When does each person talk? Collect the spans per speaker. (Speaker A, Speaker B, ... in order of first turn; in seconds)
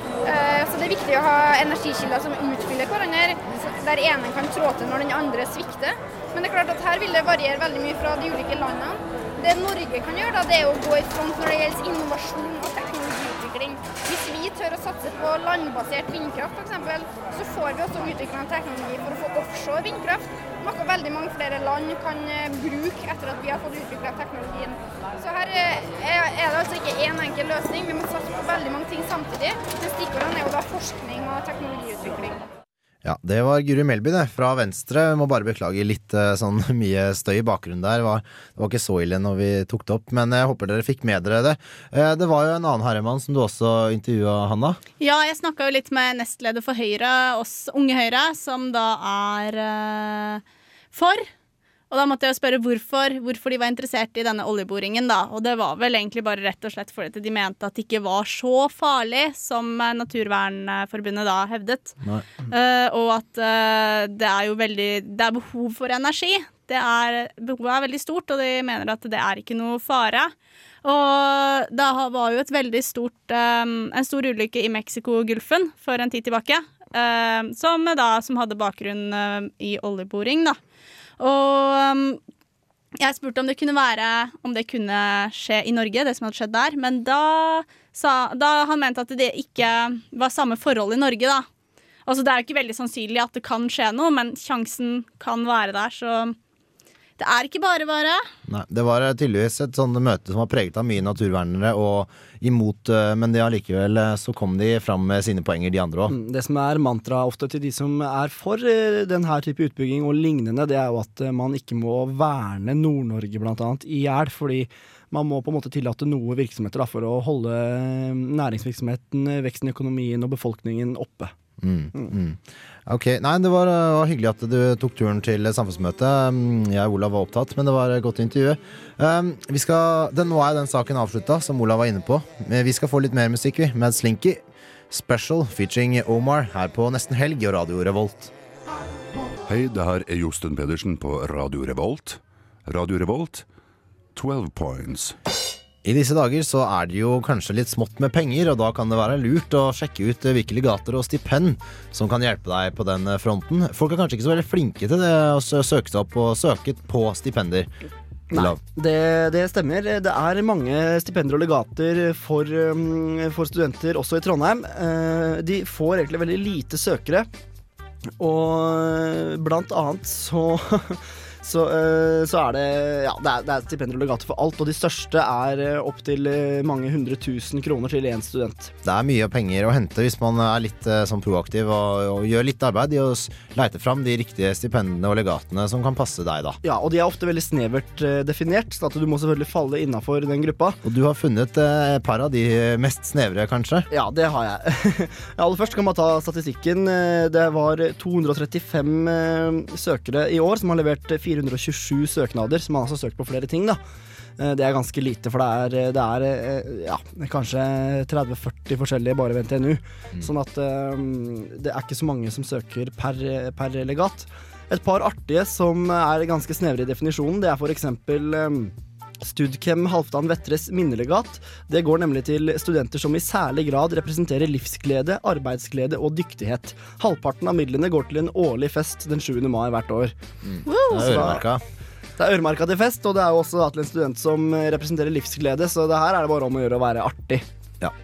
Speaker A: 0.2-32.4
Speaker B: 33.0-44.8, 98.5-106.2, 121.6-138.3, 145.8-157.7, 158.3-158.6, 178.8-186.6, 190.8-193.9, 230.4-231.6
Speaker C: 45.0-51.3, 51.9-61.9, 62.5-70.3, 70.8-80.6, 81.2-82.2, 83.0-91.5, 92.0-96.3, 97.2-98.2, 230.7-231.1
Speaker D: 106.1-121.3, 158.3-167.3, 168.2-178.7, 186.6-190.8, 193.9-203.8, 204.4-230.1, 230.9-231.4, 232.2-237.4
Speaker E: 139.4-143.4, 144.1-145.2